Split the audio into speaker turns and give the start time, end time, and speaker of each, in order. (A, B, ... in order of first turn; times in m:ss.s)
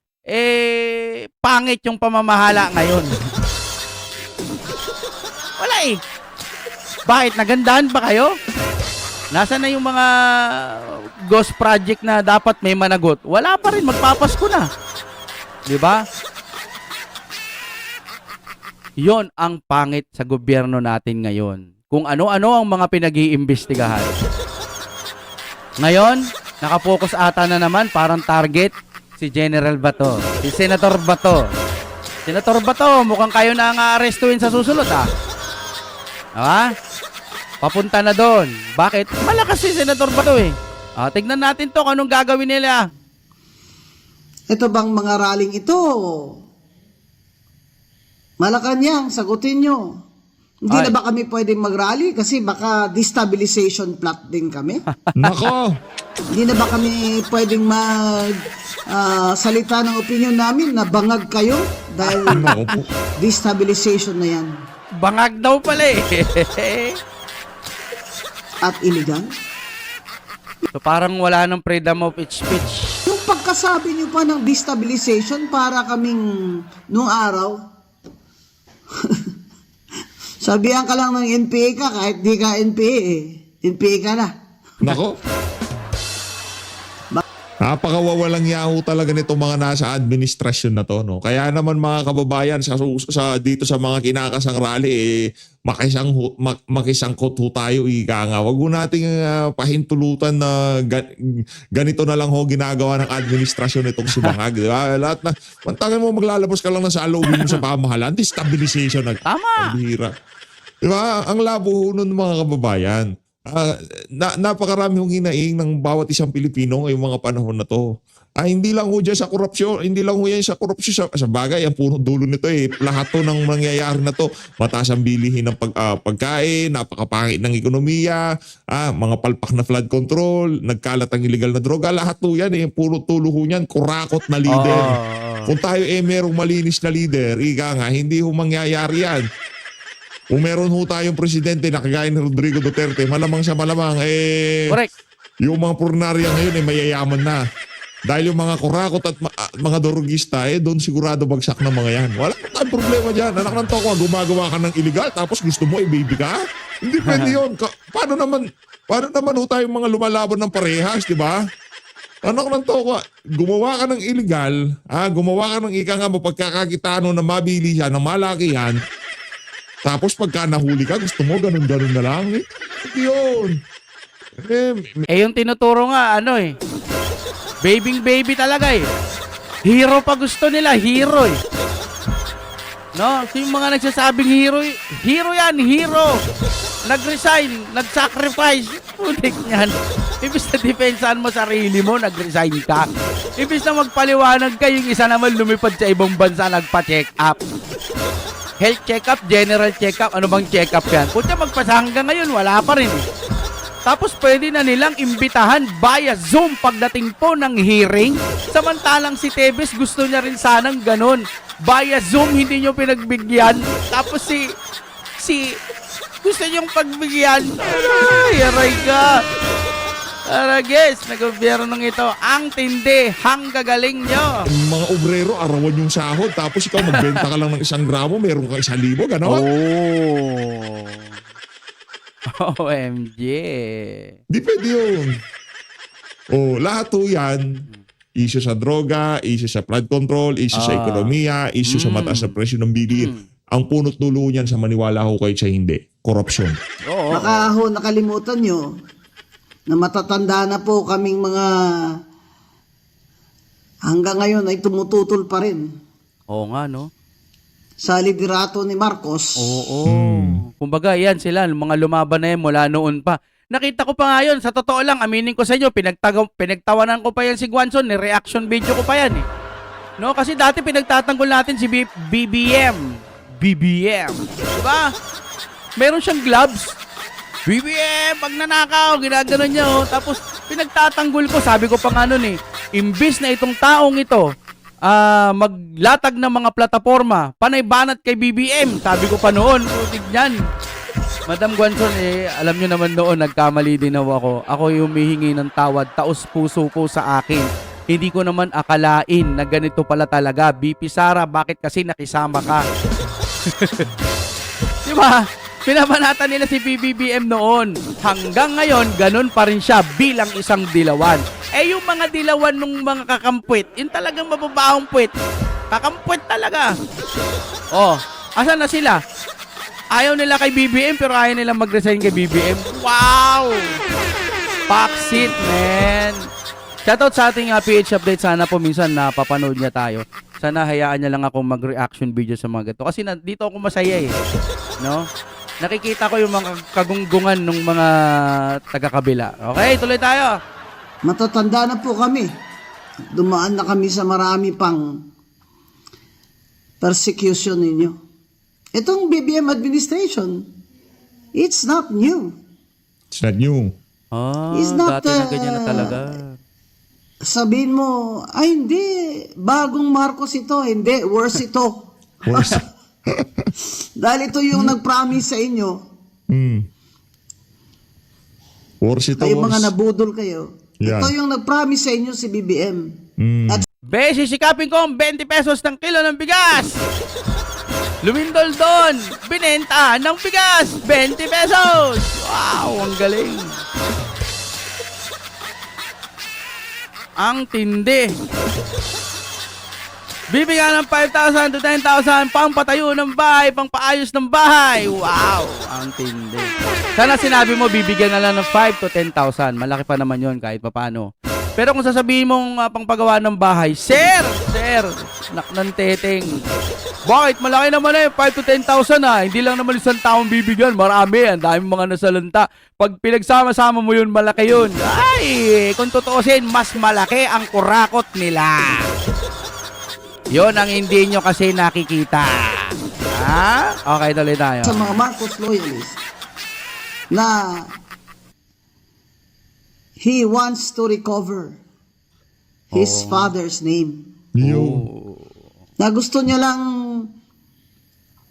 0:00.3-0:03.1 A
0:05.6-0:06.0 A
0:07.1-0:08.3 A
0:09.3-0:10.1 A
0:11.3-0:14.6 A
0:15.7-0:16.0 A
0:19.0-0:24.1 A
0:25.8-0:31.5 A
0:32.3-0:35.0 A
0:36.4-0:36.7 A
0:37.6-0:42.8 A
0:44.5-0:46.4 B
0:48.4-0:49.9 B
0:50.6-0:54.8 B
0:55.0-0:55.5 A
0:55.2-0:55.7 C
0:56.3-1:02.6 B
1:02.1-1:02.6 A
1:02.3-1:02.9 C
1:03.2-1:04.5 B
1:05.0-1:07.0 A
1:08.6-1:09.3 B
1:10.7-1:13.0 A
1:13.1-1:16.2 B
1:16.9-1:17.6 B
1:20.4-1:24.3 B
1:24.8-1:25.2 C
1:27.6-1:35.0 C
1:35.7-1:41.0 C
1:41.8-1:50.1 C
1:47.3-1:47.6 A
1:49.2-1:49.7 A
1:50.8-1:57.8 C
1:58.4-2:08.2 C
2:08.7-2:15.0 C
2:14.5-2:15.5 A
2:15.5-2:19.2 C
2:20.3-2:24.6 C
2:25.4-2:27.4 C
2:28.1-2:41.4 C
2:37.0-2:37.4 A
2:42.2-2:48.8 C
2:49.8-2:53.6 C
2:54.4-2:55.0 C
2:55.1-2:56.5 A
2:57.6-2:58.9 A
2:59.6-3:01.4 A
3:03.0-3:06.1 A
3:06.8-3:17.4 A
3:18.6-3:23.0 A
3:23.9-3:34.4 A
3:35.2-3:35.5 A
3:36.2-3:39.2 A
3:40.3-3:44.4 A
3:44.5-3:49.4 C
3:46.8-3:47.2 A
3:49.2-3:51.1 A
3:52.4-3:54.1 A
3:54.3-3:55.1 C
3:56.3-3:57.4 C
3:58.2-4:06.6 C
4:00.6-4:01.1 A
4:01.6-4:02.3 A
4:02.9-4:03.2 A
4:06.9-4:07.5 A
4:07.1-4:08.7 B
4:09.7-4:11.9 B
4:13.8-4:15.7 B
4:16.3-4:16.9 A
4:17.8-4:19.4 B
4:19.4-4:29.2 A
4:19.9-4:20.4 C
4:30.0-4:32.8 A
4:33.4-4:34.8 A
4:35.8-4:36.8 A
4:37.5-4:44.3 A
4:44.8-4:50.4 A
4:51.3-5:02.6 A
5:03.5-5:03.8 A
5:04.8-5:15.1 A
5:15.7-5:16.7 A
5:17.7-5:19.0 A
5:19.9-5:23.7 A
5:24.7-5:26.2 A
5:26.8-5:34.1 A
5:34.8-5:35.1 A
5:35.6-5:37.9 A
5:38.7-5:40.3 A
5:41.0-5:42.3 B
5:43.1-5:44.9 B
5:46.8-5:48.0 B
5:48.7-5:50.4 B
5:51.4-5:52.3 B
5:53.1-5:53.7 C
5:54.1-5:56.4 A
5:54.5-5:56.0 B
5:57.2-6:02.6 B
6:02.2-6:03.5 C
6:04.0-6:05.8 B
6:06.3-6:06.6 C
6:08.8-6:09.7 C
6:09.2-6:12.9 B
6:10.8-6:11.1 C
6:13.2-6:13.6 C
6:13.9-6:16.8 A
6:18.0-6:23.6 A
6:27.2-6:28.1 A
6:30.3-6:46.3 A
6:47.1-6:58.9 A
7:00.3-7:04.9 A
7:04.6-7:06.0 B
7:07.1-7:07.7 B
7:10.0-7:11.6 B
7:12.7-7:14.1 B
7:12.7-7:13.3 A
7:14.4-7:14.8 C
7:14.4-7:15.3 A
7:15.8-7:17.1 B